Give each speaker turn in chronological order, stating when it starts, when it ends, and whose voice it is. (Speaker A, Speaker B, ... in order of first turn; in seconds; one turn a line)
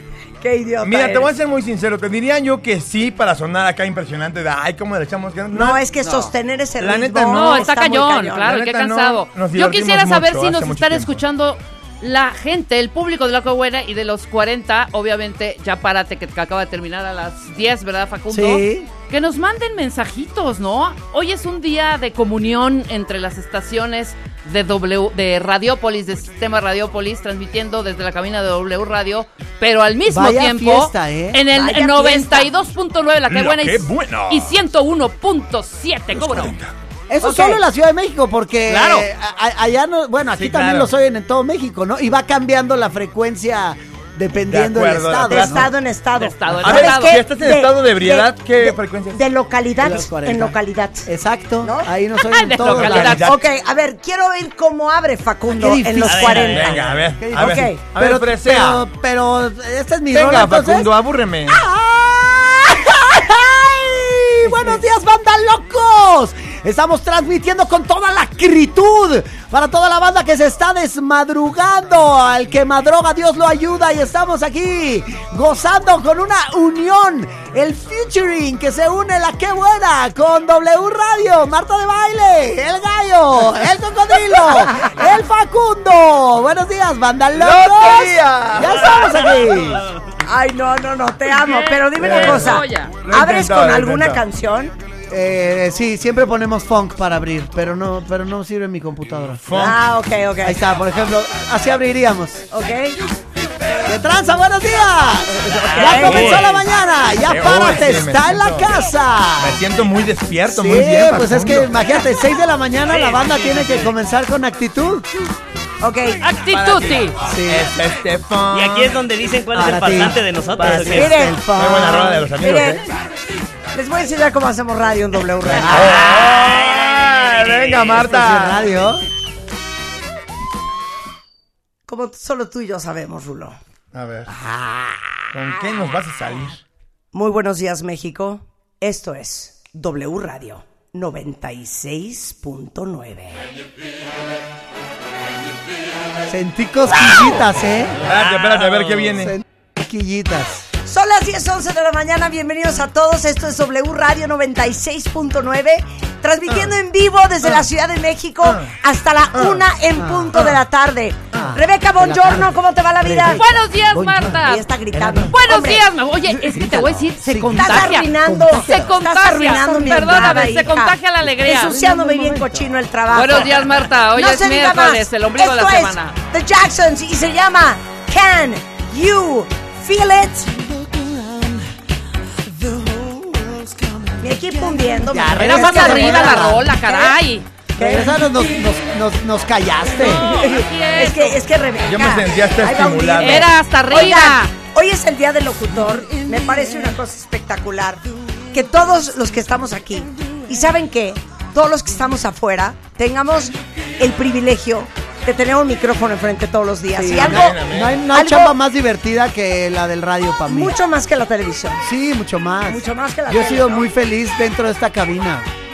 Speaker A: 0.4-1.3
Speaker B: 0.8-5.8
Speaker A: 5.5-8.5
Speaker C: 6.0-6.3
Speaker B: 6.8-7.6
Speaker D: 7.3-36.5
Speaker B: 8.4-11.2
Speaker C: 18.3-18.9
Speaker C: 30.1-31.4
Speaker A: 31.5-32.5
Speaker B: 33.3-34.5
Speaker B: 36.1-36.7
Speaker C: 37.1-45.7
Speaker A: 37.2-37.6
Speaker D: 38.7-39.0
Speaker B: 40.4-40.9
Speaker B: 44.5-45.7
Speaker A: 45.3-51.1
Speaker D: 46.2-47.2
Speaker B: 46.6-49.2
Speaker C: 49.8-53.2
Speaker A: 51.6-51.9
Speaker D: 52.2-53.3
Speaker B: 52.7-53.4
Speaker A: 53.0-57.8
Speaker C: 55.5-56.5
Speaker E: 56.0-56.9
Speaker B: 56.5-58.8
Speaker C: 57.2-60.9
Speaker B: 60.1-61.6
Speaker C: 61.6-89.8
Speaker B: 87.3-88.8
Speaker A: 90.2-94.7
Speaker D: 91.3-92.9
Speaker B: 92.0-94.2
Speaker C: 95.1-99.4
Speaker B: 99.4-99.8
Speaker A: 99.5-100.6
Speaker C: 100.4-102.4
Speaker A: 102.5-103.0
Speaker C: 103.8-109.6
Speaker E: 105.5-106.5
Speaker A: 105.5-106.4
Speaker B: 106.0-106.5
Speaker B: 107.2-108.7
Speaker B: 109.4-111.7
Speaker C: 110.5-115.1
Speaker E: 112.8-113.9
Speaker A: 115.8-116.2
Speaker D: 116.2-117.2
Speaker B: 116.5-119.0
Speaker C: 117.2-117.7
Speaker E: 118.5-121.2
Speaker C: 119.5-122.3
Speaker A: 120.8-122.8
Speaker B: 121.5-122.8
Speaker A: 123.7-126.4
Speaker C: 125.6-126.0
Speaker B: 125.7-128.6
Speaker E: 125.8-128.0
Speaker C: 128.0-129.0
Speaker A: 131.9-133.6
Speaker B: 133.9-134.3
Speaker A: 134.3-135.6
Speaker B: 135.3-136.6
Speaker A: 137.1-143.4
Speaker C: 146.3-148.0
Speaker B: 148.0-149.3
Speaker E: 148.1-149.1
Speaker C: 149.2-150.7
Speaker A: 150.8-163.4
Speaker B: 156.5-156.7
Speaker B: 158.4-158.7
Speaker B: 159.3-159.6
Speaker C: 159.9-160.6
Speaker C: 161.3-165.3
Speaker D: 163.4-164.7
Speaker A: 164.3-165.8
Speaker D: 165.3-171.8
Speaker C: 166.3-168.9
Speaker A: 167.5-180.6
Speaker C: 171.6-172.7
Speaker D: 173.1-176.2
Speaker A: 184.2-187.2
Speaker C: 185.1-186.7
Speaker D: 185.3-187.5
Speaker A: 187.8-188.4
Speaker C: 187.8-190.2
Speaker A: 190.0-208.5
Speaker D: 190.1-191.4
Speaker B: 191.8-193.5
Speaker D: 193.2-194.5
Speaker C: 206.9-210.7
Speaker B: 207.2-208.0
Speaker A: 210.5-211.8
Speaker C: 211.8-215.5
Speaker A: 212.7-213.9